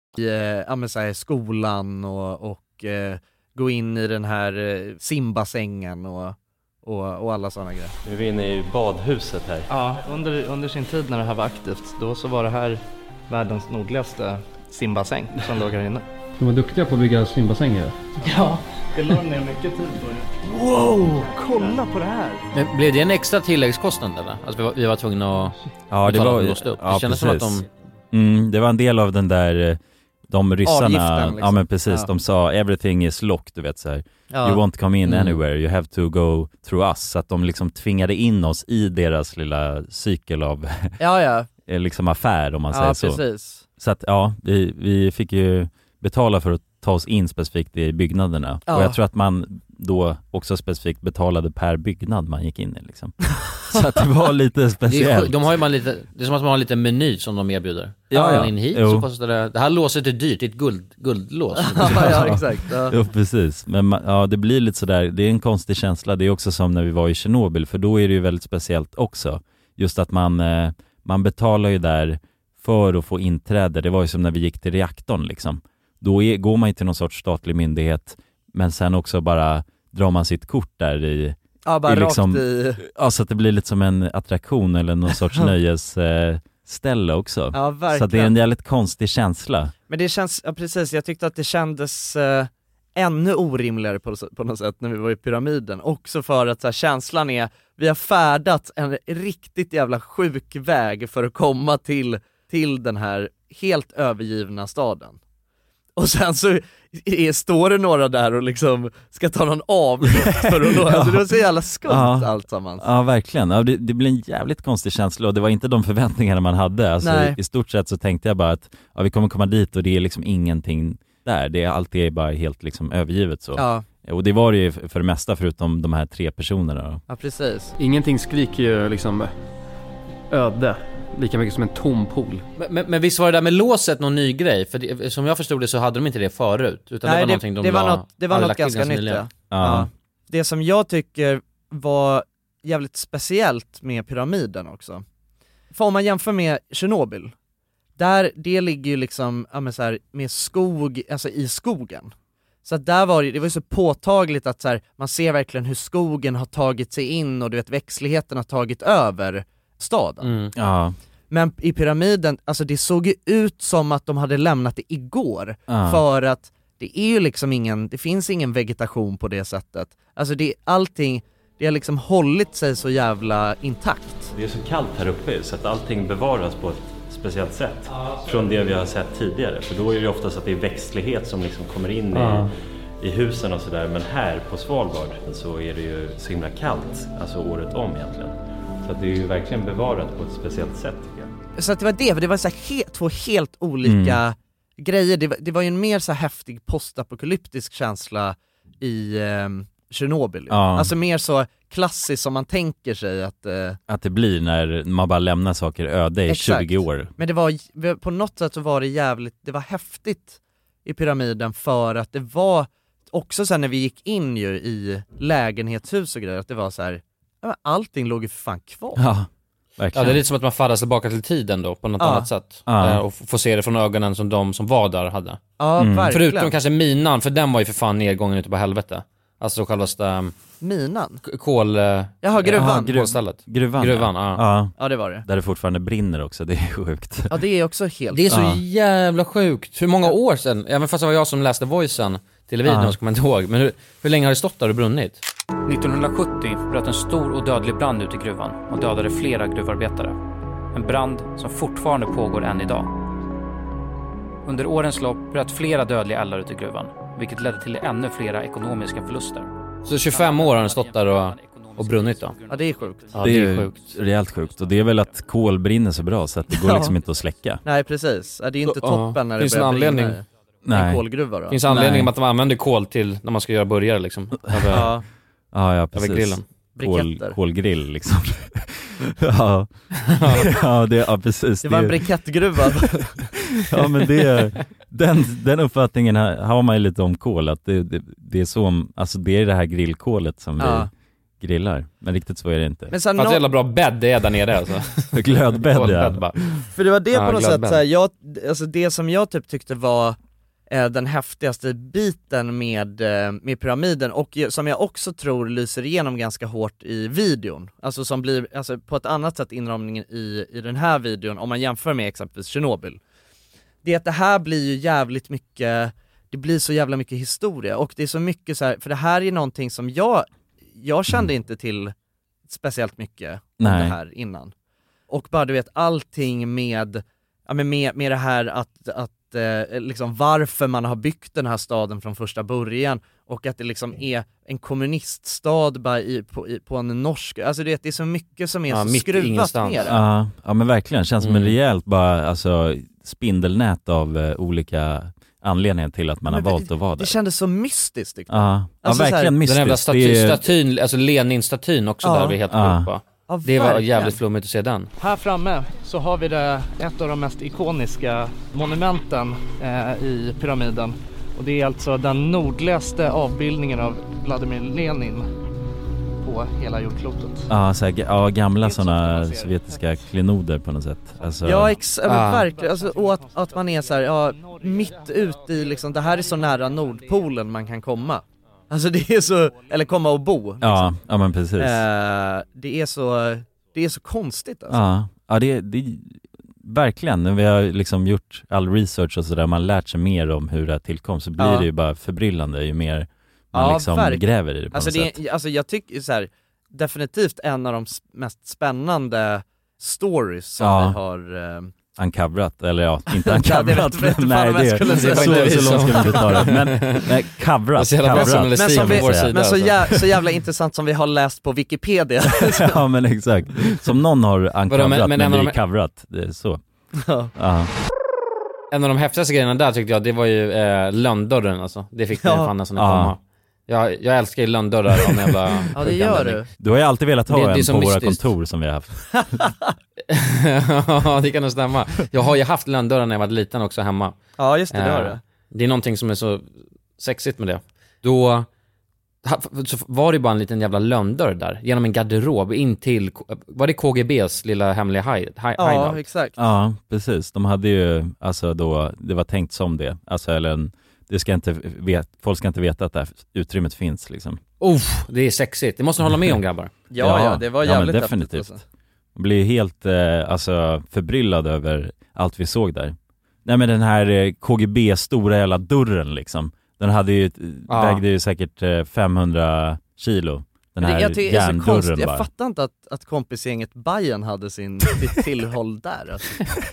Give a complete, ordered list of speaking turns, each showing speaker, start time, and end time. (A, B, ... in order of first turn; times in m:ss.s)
0:00.2-0:07.9 A
0:08.0-0:09.6 B
0:09.7-0:16.0 C
0:16.4-0:18.0 D
0:18.2-0:22.4 C
0:22.5-0:27.6 E
0:25.9-0:40.9 F
0:30.6-0:32.1 A
0:34.3-0:34.6 A
0:35.1-0:35.4 E
0:41.0-0:41.5 A
0:41.7-0:43.2 F
0:42.7-0:43.6 A
0:43.8-0:55.4 F
0:48.7-0:49.0 A
0:54.9-1:02.4 E
0:58.1-0:59.0 F
1:01.6-1:02.9 A
1:01.8-1:29.7 F
1:21.6-1:22.8 A
1:27.5-1:28.3 A
1:29.9-1:45.2 A
1:46.0-1:52.9 A
1:50.7-1:51.2 F
1:51.8-2:07.0 F
1:57.0-1:57.4 A
2:03.6-2:03.8 A
2:07.1-2:07.7 A
2:07.8-2:09.3 D
2:10.3-2:12.4 D
2:12.6-2:19.2 E
2:17.0-2:25.0 A
2:19.5-2:19.9 F
2:25.7-2:27.3 A
2:28.0-2:32.1 A
2:32.6-2:40.3 A
2:40.2-2:40.5 E
2:40.6-2:41.0 F
2:41.3-2:54.3 A
2:45.7-2:46.0 F
2:54.3-3:02.4 B
3:02.2-3:02.4 D
3:03.0-3:11.3 B
3:11.6-3:23.8 A
3:13.8-3:14.2 F
3:20.5-3:20.9 F
3:23.9-3:27.1 F
3:26.3-3:39.0 A
3:39.0-3:40.2 F
3:39.9-3:45.4 E
3:42.0-3:42.3 A
3:42.7-3:43.0 F
3:45.6-3:46.5 A
3:45.8-3:46.1 F
3:46.1-3:50.3 E
3:50.6-3:51.2 A
3:51.2-3:54.4 E
3:52.2-3:53.0 A
3:52.5-3:54.7 F
3:54.8-3:55.2 A
3:55.2-3:57.3 F
3:57.3-3:58.2 A
3:58.1-4:05.2 E
3:58.3-3:58.6 F
4:02.6-4:03.0 F
4:05.6-4:10.2 G
4:10.7-4:12.9 G
4:14.4-4:25.2 G
4:19.8-4:22.4 E
4:22.5-4:23.2 A
4:23.1-4:23.7 E
4:23.2-4:27.6 F
4:26.5-4:26.9 A
4:27.6-4:31.6 A
4:28.6-4:30.2 E
4:30.6-4:31.0 F
4:31.5-4:34.9 E
4:31.7-4:32.1 F
4:34.5-4:34.9 F
4:34.7-4:35.0 A
4:35.5-4:39.7 F
4:35.9-4:36.4 E
4:36.8-4:37.4 A
4:40.1-4:40.5 E
4:40.3-4:42.0 F
4:41.6-4:43.2 A
4:43.7-4:50.9 F
4:50.6-4:50.9 A
4:51.4-4:52.9 F
4:52.9-4:53.4 A
4:53.2-4:56.4 E
4:55.1-4:56.3 F
4:56.7-5:00.2 A
4:57.1-4:57.8 E
5:00.7-5:13.0 A
5:13.8-5:21.9 A
5:22.5-5:24.5 A
5:23.6-5:24.0 F
5:25.1-5:40.0 A
5:38.7-5:39.9 E
5:39.8-5:47.1 F
5:41.2-5:41.5 E
5:46.3-5:49.3 A
5:48.3-5:50.4 F
5:49.4-5:54.9 E
5:52.0-5:52.4 A
5:52.5-5:52.9 F
5:53.3-5:54.2 A
5:55.0-6:05.3 C
6:06.2-6:07.5 C
6:07.5-6:11.8 F
6:08.6-6:09.5 C
6:11.4-6:20.9 A
6:12.0-6:12.4 E
6:12.7-6:13.1 C
6:20.6-6:21.8 F
6:21.6-6:24.8 A
6:24.7-6:35.2 F
6:31.4-6:31.7 A
6:33.5-6:41.7 A
6:40.6-6:41.0 F
6:42.0-6:49.4 F
6:43.2-6:46.4 A
6:44.9-6:47.0 E
6:47.8-6:49.9 E
6:48.1-6:52.8 A
6:52.5-6:56.6 F
6:54.7-6:55.6 E
6:57.0-6:57.3 A
6:57.3-6:57.7 F
6:58.7-7:06.4 E
7:02.2-7:02.5 A
7:02.8-7:03.1 F
7:05.7-7:06.5 A
7:06.6-7:09.3 F
7:07.3-7:08.2 E
7:09.2-7:09.5 A
7:10.1-7:14.2 E
7:14.4-7:15.2 A
7:14.7-7:18.5 E
7:19.2-7:26.0 E
7:25.6-7:26.3 A
7:26.4-7:34.4 F
7:34.6-7:36.7 E
7:36.9-7:38.6 A
7:37.0-7:38.5 F
7:39.2-7:52.3 F
7:47.7-7:48.0 E
7:50.8-7:56.4 A